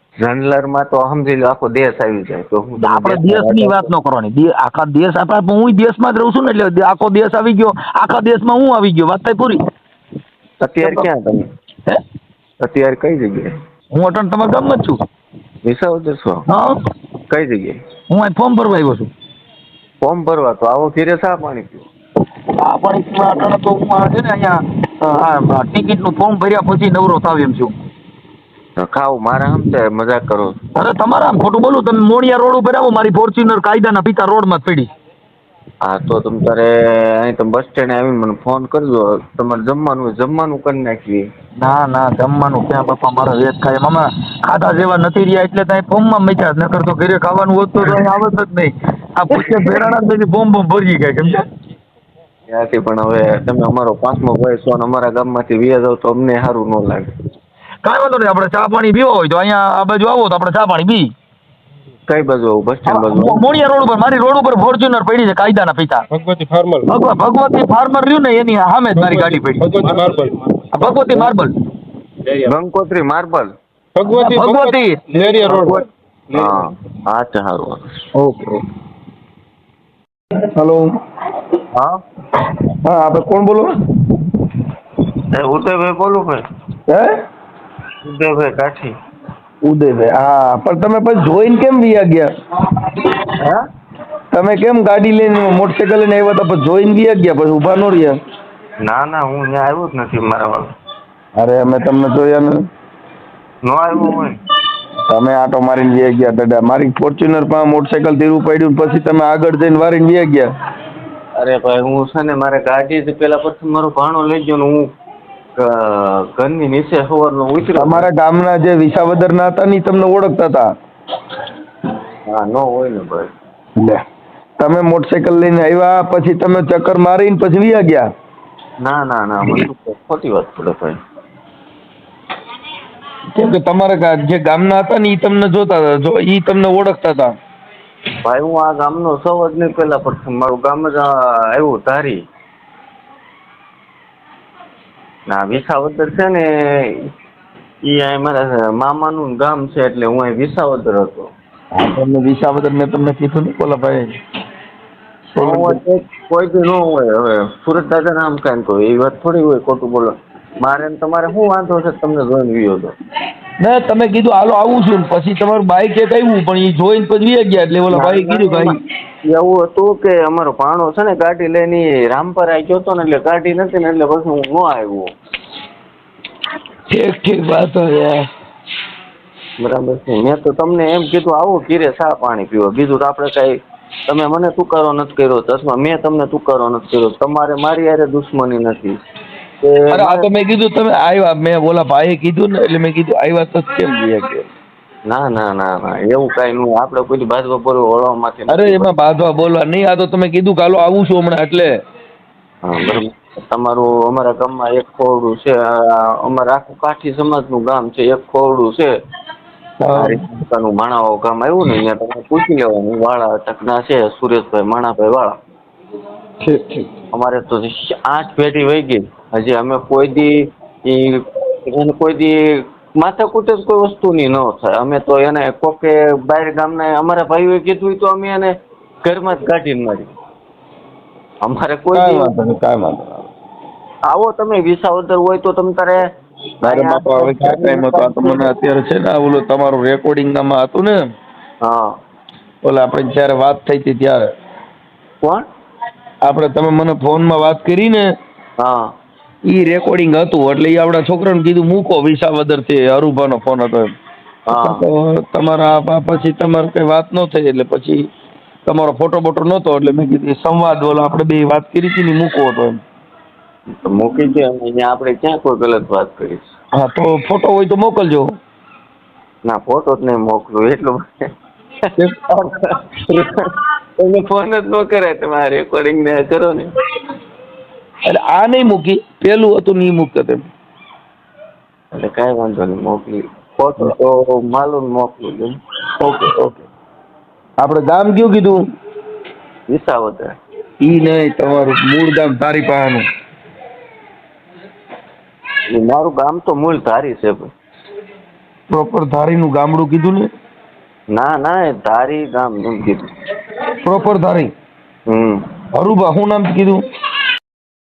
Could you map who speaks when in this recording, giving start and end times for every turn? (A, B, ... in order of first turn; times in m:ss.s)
0:00.2-0:03.9 A
0:02.8-0:09.6 B
0:10.6-0:11.4 A
0:12.6-0:13.5 A
0:13.9-0:15.0 B
0:15.6-0:16.4 A
0:17.3-0:17.8 A
0:18.1-0:19.1 B
0:20.0-0:21.9 A
0:22.6-0:27.7 B
0:28.8-0:30.6 A
0:30.8-0:34.9 B
0:35.8-0:41.3 A
0:41.6-0:51.4 B
0:49.3-0:49.9 A
0:52.5-0:57.1 A
0:57.8-1:01.1 B
1:02.1-1:03.5 A
1:02.9-1:06.0 B
1:06.1-1:06.9 C
1:06.9-1:09.8 B
1:09.0-1:10.4 C
1:10.7-1:11.5 B
1:12.4-1:13.5 A
1:14.0-1:15.8 C
1:14.2-1:15.0 B
1:15.2-1:17.8 A
1:16.3-1:16.6 C
1:18.2-1:18.6 B
1:20.6-1:20.9 D
1:22.8-1:23.6 D
1:25.3-1:26.4 A
1:28.0-1:28.9 A
1:29.7-1:32.3 D
1:34.3-1:38.2 D
1:38.8-1:40.7 A
1:41.4-1:42.6 D
1:43.6-1:44.4 A
1:45.1-1:50.5 D
1:51.4-1:54.8 A
1:55.6-1:58.1 A
1:57.8-2:00.7 D
2:02.3-2:03.3 A
2:04.6-2:08.0 D
2:08.8-2:11.0 A
2:13.4-2:17.3 D
2:18.2-2:22.2 A
2:25.3-2:26.9 A
2:27.8-2:31.3 A
2:31.8-2:34.1 D
2:35.4-2:35.8 D
2:35.4-2:43.0 A
2:43.6-2:48.8 D
2:47.9-2:55.1 A
2:56.9-2:58.2 D
2:59.6-3:03.6 A
3:04.1-3:09.0 A
3:09.6-3:10.3 A
3:09.9-3:14.5 D
3:15.1-3:18.9 A
3:18.5-3:21.7 D
3:22.6-3:28.9 A
3:29.8-3:30.2 D
3:30.0-3:35.3 A
3:36.4-3:36.9 D
3:37.1-3:40.3 A
3:40.9-3:42.4 A
3:43.0-3:48.5 A
3:49.0-3:50.1 A
3:51.4-3:52.4 A
3:51.9-3:53.3 D
3:54.1-3:56.0 A
3:56.6-3:58.5 A
3:56.6-4:00.9 D
4:01.6-4:01.9 A
4:02.6-4:04.2 D
4:06.3-4:08.0 D
4:09.5-4:13.9 D
4:14.5-4:14.8 A
4:14.5-4:18.0 D
4:18.7-4:22.8 D
4:23.8-4:26.5 A
4:26.8-4:28.2 D
4:29.4-4:31.0 A
4:32.0-4:36.7 A
4:38.2-4:40.5 D
4:41.9-4:45.5 A
4:46.0-4:46.6 D
4:47.6-4:48.6 D
4:49.7-4:50.3 A
4:50.8-4:53.0 D
4:55.7-4:57.5 A
4:58.7-5:00.3 D
5:01.1-5:03.1 A
5:03.8-5:04.5 D
5:05.1-5:05.4 A
5:05.8-5:06.8 D